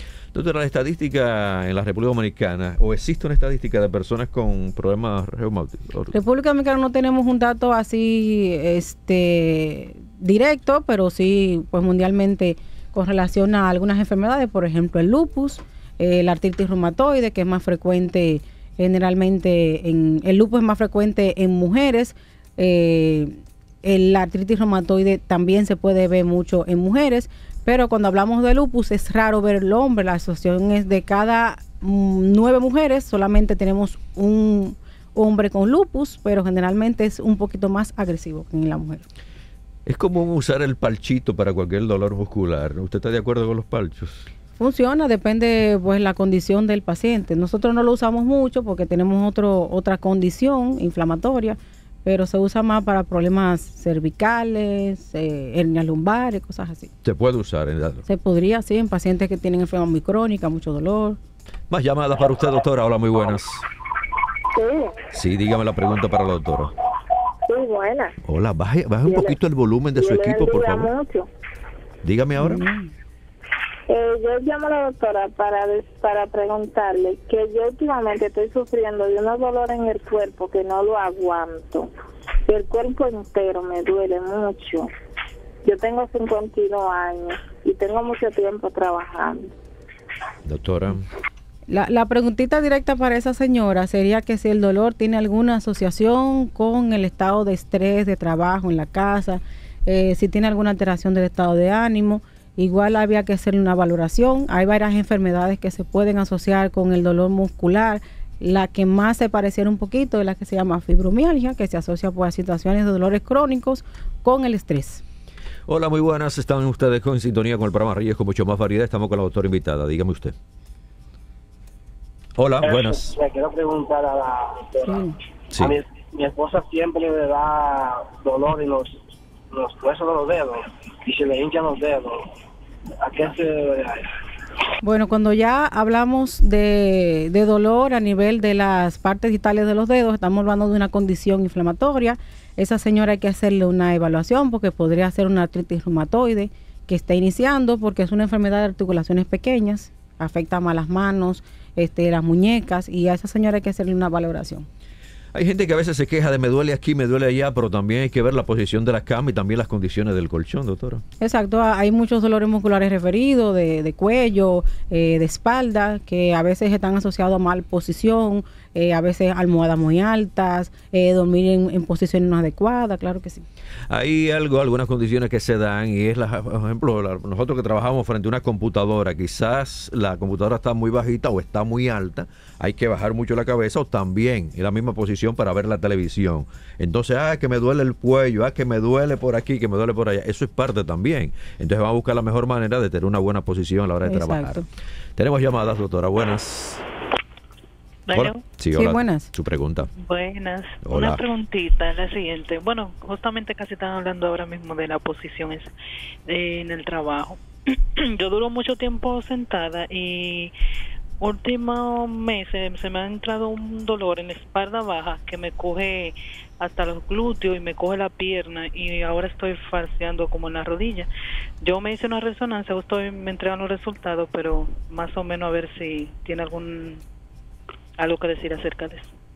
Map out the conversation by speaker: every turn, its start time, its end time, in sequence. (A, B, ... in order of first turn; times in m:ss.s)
0:00.3-0:06.2 A
0:06.1-0:39.1 B
0:39.9-0:44.2 A
0:44.6-0:56.9 B
0:57.0-0:58.1 A
0:58.1-1:01.2 B
1:01.7-1:03.7 A
1:04.5-1:05.0 C
1:05.1-1:06.7 A
1:07.5-1:08.1 C
1:08.2-1:10.9 A
1:09.0-1:09.4 C
1:10.0-1:11.3 C
1:12.0-1:12.7 A
1:12.4-1:12.9 B
1:13.9-1:21.9 C
1:22.5-1:24.9 C
1:25.6-1:29.4 C
1:30.4-1:31.1 A
1:31.7-1:55.0 B
1:55.7-2:00.4 A
2:02.4-2:03.2 A
2:02.6-2:12.3 D
2:04.9-2:05.2 B
2:13.0-2:14.1 D
2:14.8-2:34.7 B
2:35.3-2:41.0 A
2:41.2-2:53.4 B
2:53.9-3:14.6 A
3:14.0-3:14.6 B
3:15.2-3:16.8 A
3:18.1-3:18.5 E
3:18.1-3:19.9 A
3:18.7-3:19.3 B
3:19.9-3:25.7 E
3:20.8-3:21.2 A
3:26.3-3:30.5 E
3:31.2-3:41.1 E
3:41.6-3:47.0 E
3:48.0-3:49.1 E